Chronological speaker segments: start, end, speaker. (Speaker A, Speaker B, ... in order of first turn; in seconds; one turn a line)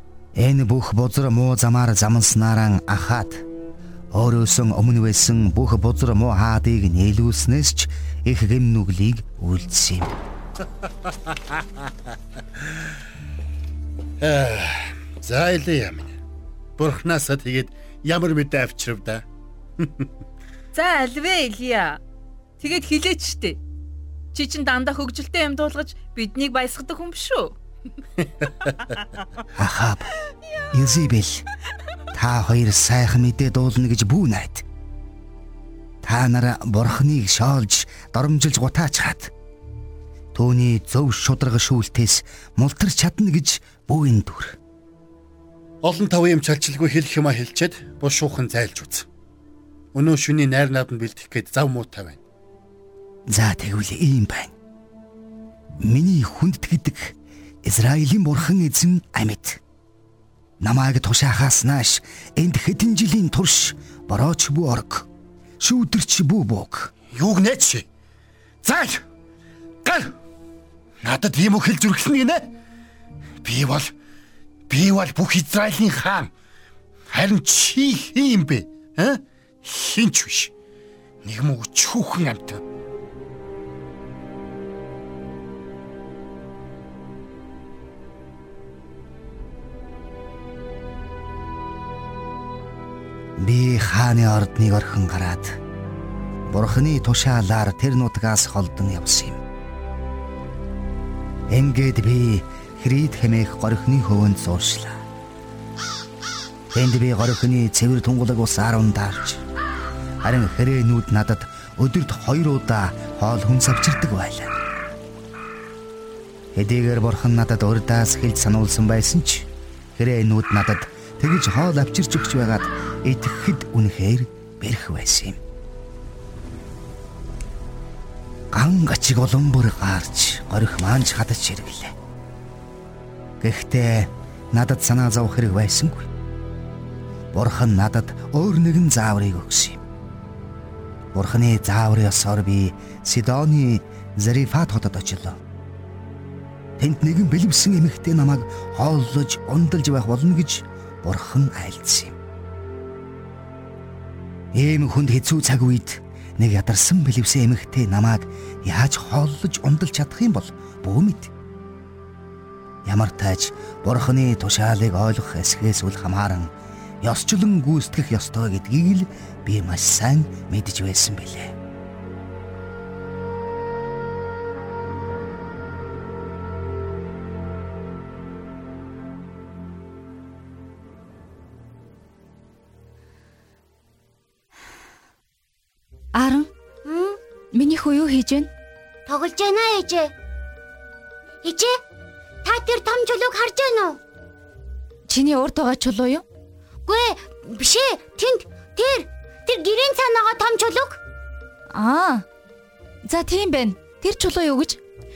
Speaker A: 0.4-3.4
Speaker A: 4.1-10.2
Speaker B: 11.3-11.5
Speaker B: 14.2-16.1
Speaker B: 16.8-19.2
Speaker B: 19.8-20.1
Speaker C: 20.7-22.0
Speaker C: 22.6-23.6
Speaker C: 24.3-27.6
Speaker A: 29.6-30.1
Speaker A: 30.7-31.4
Speaker A: 32.1-34.6
Speaker A: 36.0-39.3
Speaker A: 40.3-44.6
Speaker B: 45.8-49.1
Speaker B: 49.9-52.2
Speaker A: 53.3-54.5
Speaker A: 55.8-59.6
Speaker A: 60.6-65.1
Speaker A: 65.6-66.9
Speaker B: 67.1-67.9
Speaker B: 68.6-69.0
Speaker B: 69.8-70.2
Speaker B: 71.0-72.5
Speaker B: 73.4-73.9
Speaker B: 74.7-76.3
Speaker B: 77.1-80.5
Speaker B: 81.2-82.6
Speaker A: 93.4-95.6
Speaker A: 96.5-99.4
Speaker A: 101.5-105.0
Speaker A: 106.7-109.4
Speaker A: 110.2-114.5
Speaker A: 116.5-125.4
Speaker A: 128.5-131.9
Speaker A: 133.4-136.1
Speaker A: 137.3-139.8
Speaker A: 141.1-145.4
Speaker A: 146.8-152.1
Speaker A: 154.6-161.3
Speaker A: 162.8-166.5
Speaker A: 167.0-171.6
Speaker D: 186.1-186.5
Speaker E: 186.8-187.2
Speaker D: 187.5-188.5
Speaker E: 189.1-190.1
Speaker E: 191.4-191.7
Speaker E: 192.4-194.0
Speaker D: 195.1-196.2
Speaker E: 196.9-201.0
Speaker D: 201.7-202.2
Speaker D: 203.0-204.8